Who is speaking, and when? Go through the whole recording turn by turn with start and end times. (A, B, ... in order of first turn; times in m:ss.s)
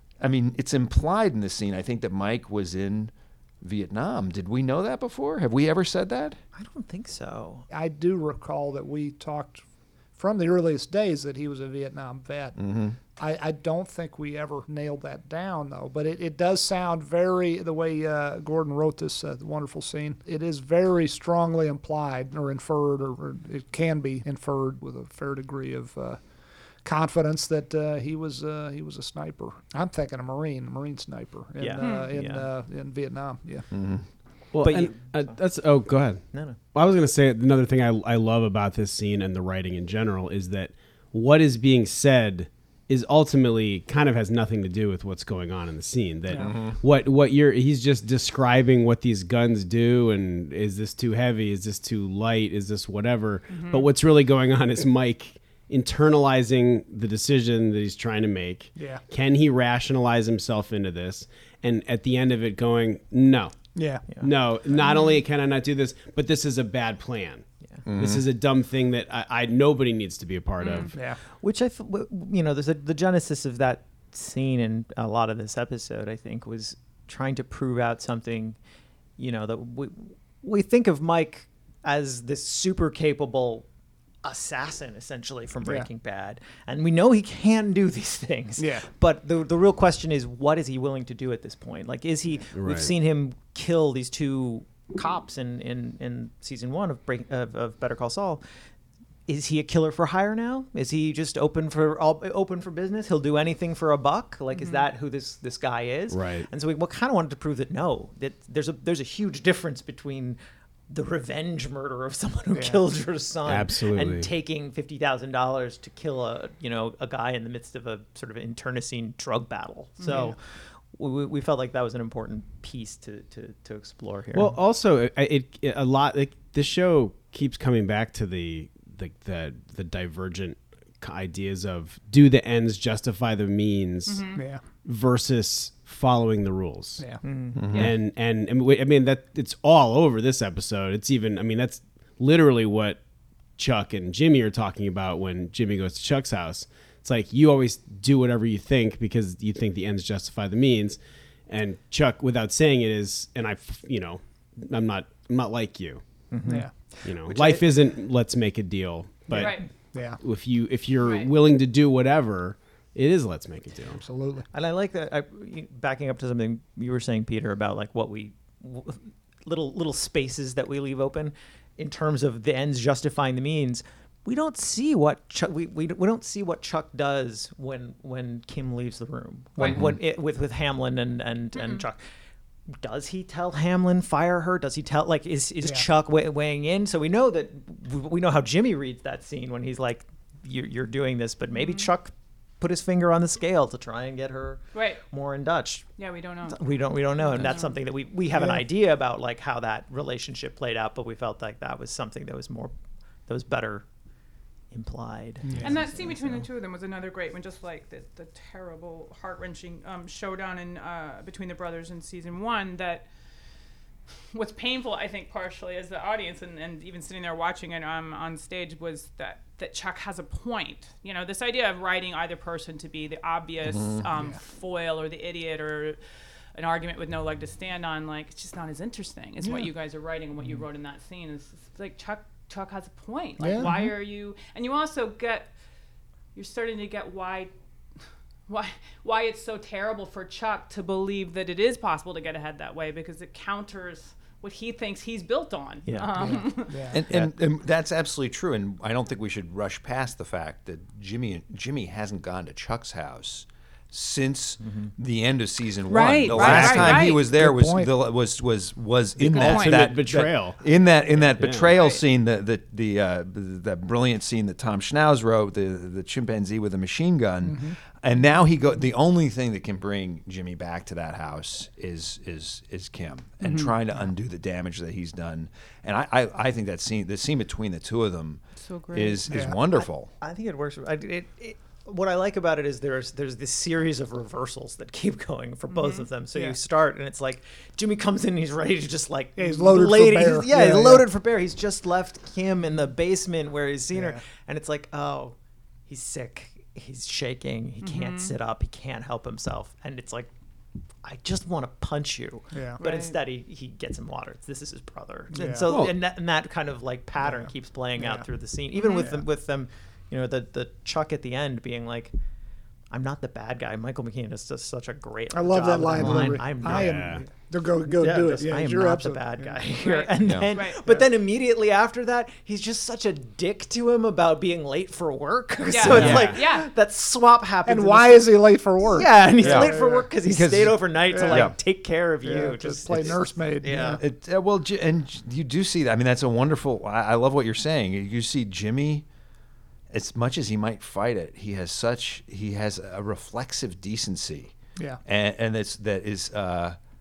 0:00.2-0:06.4 A
0:06.5-0:07.7 B
0:07.7-0:09.6 C
0:10.2-0:12.6 C
0:12.6-0:13.0 A
0:13.2-0:26.2 C
0:26.8-0:33.7 C
0:31.6-0:32.5 B
0:31.8-0:32.1 D
0:33.7-0:34.0 A
0:34.5-1:03.5 E
0:34.6-0:35.4 B
0:36.3-0:36.6 B
0:46.4-0:46.8 A
0:53.5-0:53.9 D
0:58.8-0:59.0 C
1:03.7-1:04.0 C
1:04.2-1:11.0 E
1:04.8-1:05.2 D
1:07.8-1:08.2 A
1:10.6-1:10.9 D
1:10.9-1:11.2 C
1:11.4-1:18.6 B
1:19.2-1:23.6 B
1:24.2-1:38.4 B
1:28.6-1:28.8 C
1:32.5-1:32.9 E
1:39.3-1:50.4 B
1:44.5-1:44.8 D
1:46.1-1:46.5 E
1:50.9-2:00.4 B
1:52.5-1:52.8 C
1:53.4-1:54.3 E
2:00.0-2:00.3 D
2:00.9-2:04.6 B
2:04.3-2:14.3 E
2:14.0-2:14.4 D
2:14.3-2:14.6 C
2:14.8-2:17.0 E
2:17.2-2:17.6 B
2:17.6-2:17.9 A
2:17.6-2:23.0 E
2:23.6-2:36.0 E
2:36.3-2:36.7 B
2:36.4-2:37.0 C
2:37.0-2:39.6 E
2:37.3-2:37.6 B
2:39.3-2:40.2 C
2:39.3-2:39.7 D
2:40.2-2:44.0 E
2:41.0-2:41.3 D
2:44.0-2:44.5 C
2:44.5-3:02.0 B
2:59.6-2:59.8 D
3:01.5-3:01.8 D
3:02.8-3:15.9 B
3:11.5-3:11.9 D
3:14.7-3:15.0 D
3:16.0-3:17.8 D
3:16.5-3:22.7 B
3:18.3-3:18.6 C
3:23.3-3:23.8 B
3:24.7-3:26.1 B
3:25.4-3:25.8 C
3:25.6-3:33.1 D
3:34.3-3:46.0 D
3:43.6-3:44.0 A
3:46.5-3:55.5 D
3:53.4-3:53.9 C
3:56.3-3:57.5 D
3:58.5-4:06.9 D
4:05.9-4:06.4 B
4:06.2-4:07.0 C
4:06.9-4:40.1 A
4:14.6-4:14.9 B
4:15.9-4:17.2 D
4:16.1-4:17.1 E
4:16.5-4:17.9 C
4:19.2-4:20.6 E
4:19.3-4:19.9 D
4:21.4-4:21.7 E
4:27.4-4:27.8 C
4:38.6-4:39.2 D
4:39.3-4:39.6 C
4:40.2-4:55.3 B
4:45.7-4:46.1 D
4:49.4-4:51.0 C
4:53.9-4:54.2 C
4:55.9-5:00.3 B
4:57.8-4:58.3 D
5:01.0-5:12.1 B
5:02.5-5:02.8 C
5:02.8-5:03.2 D
5:05.3-5:05.7 C
5:05.7-5:05.9 E
5:07.2-5:08.2 C
5:08.8-5:09.2 D
5:12.9-5:17.2 B
5:15.3-5:19.5 C
5:16.0-5:17.2 E
5:17.8-5:34.0 B
5:19.8-5:20.8 D
5:20.2-5:20.5 A
5:25.6-5:26.7 D
5:25.9-5:26.4 E
5:27.6-5:30.1 C
5:29.4-5:29.7 A
5:30.2-5:31.6 A
5:31.1-5:31.5 C
5:32.2-5:34.0 C
5:33.8-5:39.0 A
5:39.9-5:44.5 A
5:45.0-5:46.8 A